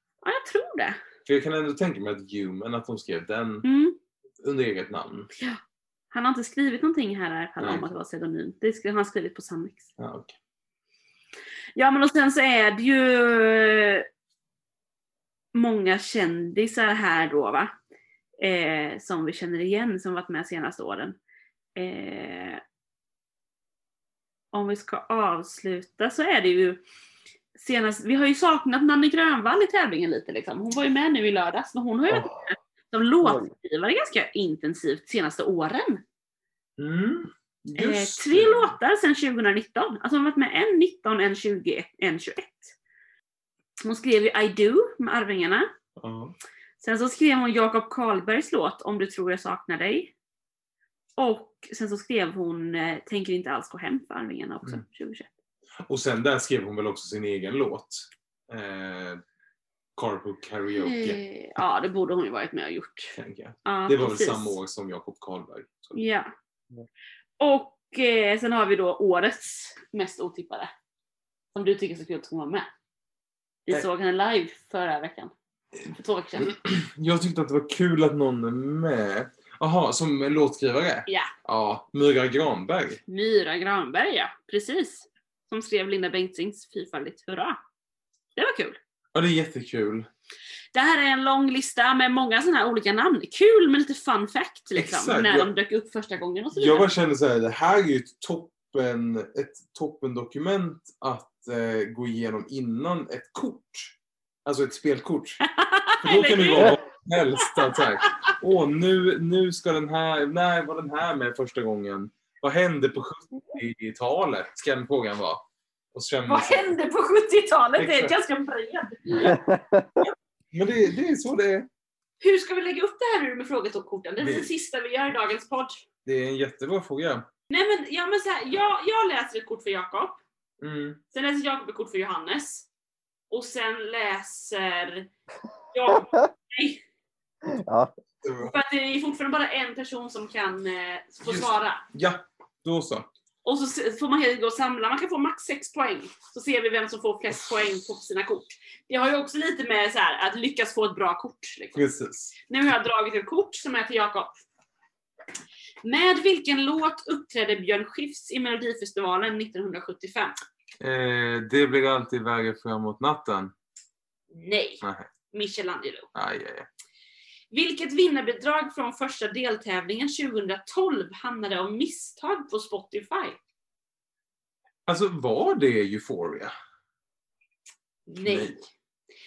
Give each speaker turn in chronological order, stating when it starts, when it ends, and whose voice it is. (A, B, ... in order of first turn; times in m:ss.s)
0:00.2-0:01.0 A
0:01.3-0:03.6 B
0:03.6-0:04.0 A
0:04.4-0:05.3 B
0:06.1-0:09.9 A
0:07.6-0:07.9 B
0:10.0-0:10.3 B
0:11.8-0:14.1 A
0:15.5-0:17.7 A
0:18.4-0:21.2 A
0:21.8-0:22.6 A
0:24.5-0:26.8 A
0:27.6-0:36.0 A
0:33.2-0:33.5 C
0:36.8-0:38.8 B
0:37.8-0:42.8 A
0:43.8-0:45.7 A
0:46.0-0:46.4 B
0:46.8-0:50.1 A
0:51.2-0:55.3 A
0:55.9-0:59.2 B
1:00.0-1:01.2 B
1:00.8-1:04.6 A
1:03.2-1:06.0 B
1:06.0-1:06.3 A
1:07.4-1:10.7 A
1:11.5-1:12.7 A
1:13.7-1:15.3 A
1:15.9-1:16.5 A
1:16.4-1:23.0 B
1:21.1-1:21.3 A
1:23.1-1:27.6 A
1:28.4-1:28.8 A
1:29.1-1:30.1 B
1:30.7-1:36.9 A
1:34.8-1:35.5 B
1:36.5-1:45.4 B
1:45.5-1:46.8 A
1:46.0-1:56.8 B
1:47.4-1:48.3 A
1:56.3-1:59.4 A
1:57.8-1:58.1 B
1:59.2-2:00.0 C
2:00.0-2:01.7 B
2:02.2-2:05.8 A
2:04.2-2:04.5 B
2:06.1-2:07.3 B
2:07.5-2:10.2 A
2:10.6-2:11.0 B
2:11.1-2:12.7 A
2:13.3-2:15.1 A
2:15.7-2:16.8 A
2:15.9-2:16.3 C
2:17.4-2:17.9 C
2:18.2-2:18.5 B
2:18.4-2:21.8 A
2:21.3-2:23.1 B
2:23.4-2:31.8 A
2:31.8-2:32.3 B
2:32.5-2:34.4 A
2:35.8-2:40.4 A
2:40.8-2:43.5 B
2:44.3-2:46.1 A
2:44.8-2:45.1 B
2:46.2-2:46.7 B
2:47.5-2:53.4 A
2:54.9-2:56.5 B
2:58.1-2:58.7 A
2:58.2-2:58.6 B